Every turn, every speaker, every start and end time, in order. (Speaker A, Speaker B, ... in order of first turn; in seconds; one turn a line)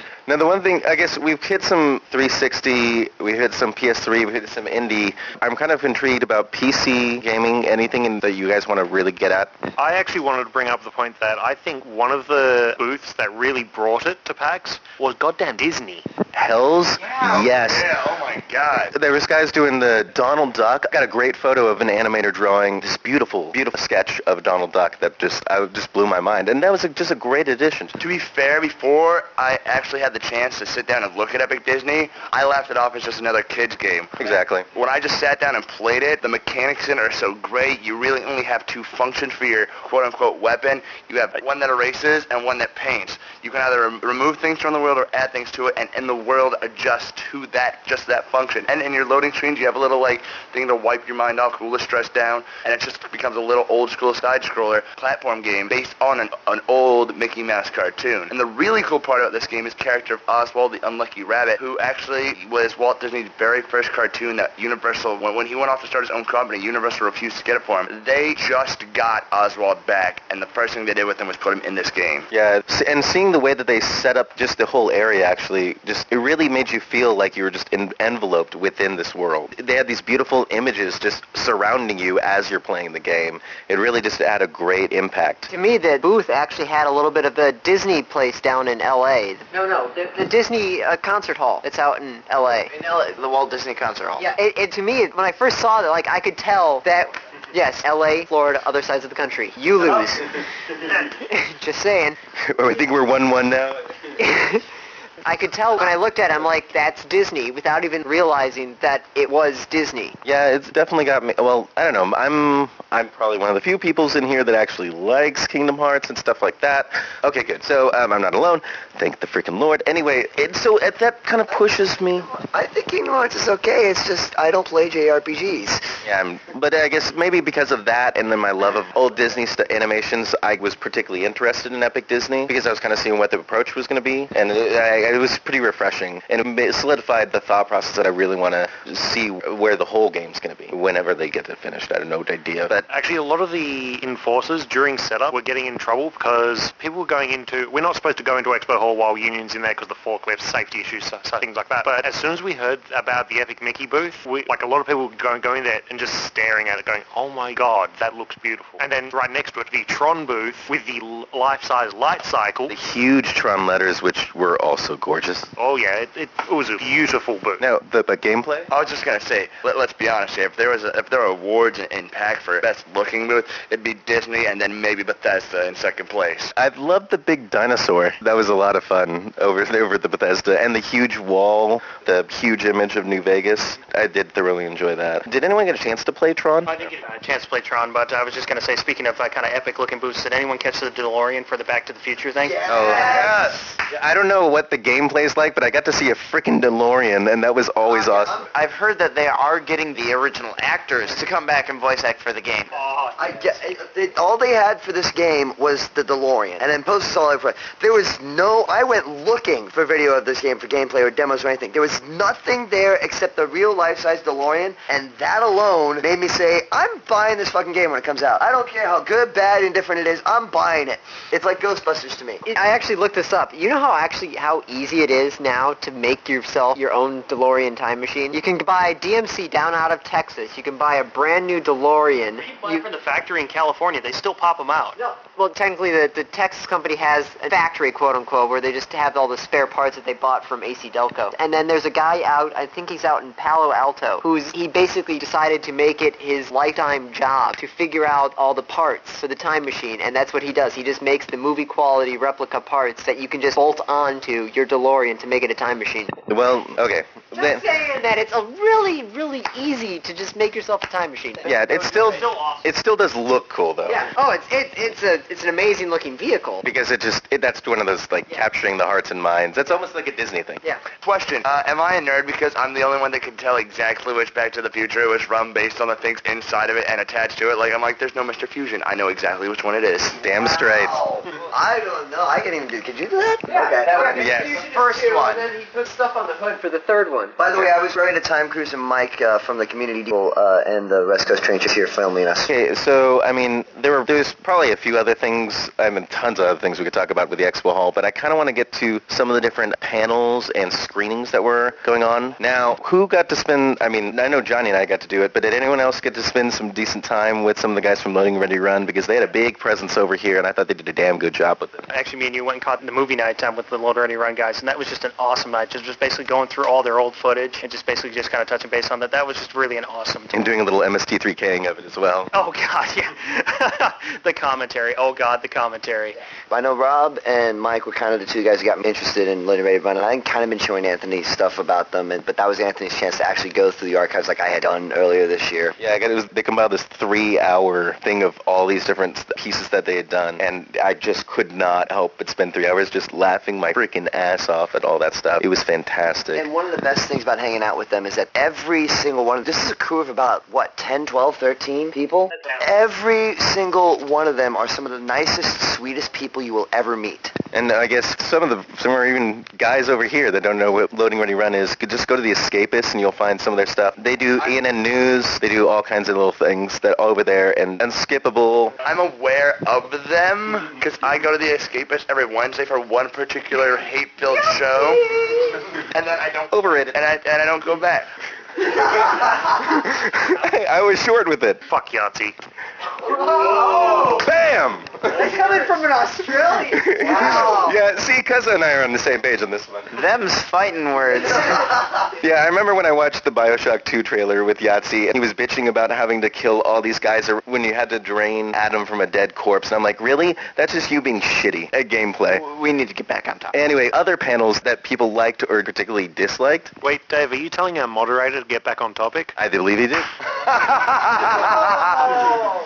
Speaker A: 0.3-9.7
Speaker B: 9.8-16.1
Speaker A: 16.3-17.9
Speaker C: 17.0-18.9
Speaker A: 18.9-28.0
Speaker C: 28.0-72.3
Speaker A: 34.2-34.7
Speaker A: 72.3-85.5
Speaker D: 85.5-92.8
Speaker E: 92.5-94.4
Speaker D: 94.2-102.2
Speaker A: 102.4-104.1
Speaker D: 104.2-104.7
Speaker D: 105.2-110.2
Speaker A: 110.2-122.3
Speaker F: 121.5-125.8
Speaker A: 126.0-142.8
Speaker B: 142.9-162.7
Speaker A: 162.7-165.5
Speaker B: 165.6-167.6
Speaker A: 167.6-168.7
Speaker C: 168.7-176.5
Speaker A: 176.6-186.8
Speaker G: 186.7-192.8
Speaker F: 192.4-193.4
Speaker A: 192.7-198.4
Speaker C: 193.2-193.6
Speaker F: 197.9-198.4
Speaker E: 198.4-202.8
Speaker B: 202.9-203.2
Speaker G: 202.9-203.2
Speaker F: 203.2-222.5
Speaker D: 222.5-232.8
Speaker G: 232.4-235.0
Speaker D: 235.0-256.2
Speaker A: 256.3-257.6
Speaker D: 257.3-261.7
Speaker A: 261.4-264.1
Speaker G: 261.7-262.6
Speaker D: 263.9-266.6
Speaker A: 266.6-270.6
Speaker C: 271.0-280.2
Speaker A: 280.2-281.0
Speaker F: 280.2-285.4
Speaker D: 283.5-287.4
Speaker A: 284.2-284.6
Speaker F: 287.4-292.5
Speaker A: 292.4-311.9
Speaker G: 311.9-320.5
Speaker A: 320.3-322.3
Speaker G: 322.3-326.2
Speaker F: 326.5-335.8
Speaker A: 335.8-346.4
Speaker F: 346.3-357.4
Speaker G: 352.4-352.6
Speaker A: 357.5-368.8
Speaker C: 368.8-375.1
Speaker D: 374.3-375.6
Speaker C: 375.7-378.1
Speaker A: 376.5-377.0
Speaker A: 378.9-381.6
Speaker B: 381.7-382.4
Speaker D: 383.1-384.2
Speaker A: 383.4-385.3
Speaker D: 385.1-387.8
Speaker A: 386.7-390.0
Speaker E: 389.9-391.9
Speaker A: 392.2-402.4
Speaker E: 402.3-403.6
Speaker A: 403.5-406.7
Speaker B: 406.8-409.3
Speaker A: 409.4-411.5
Speaker C: 410.5-412.4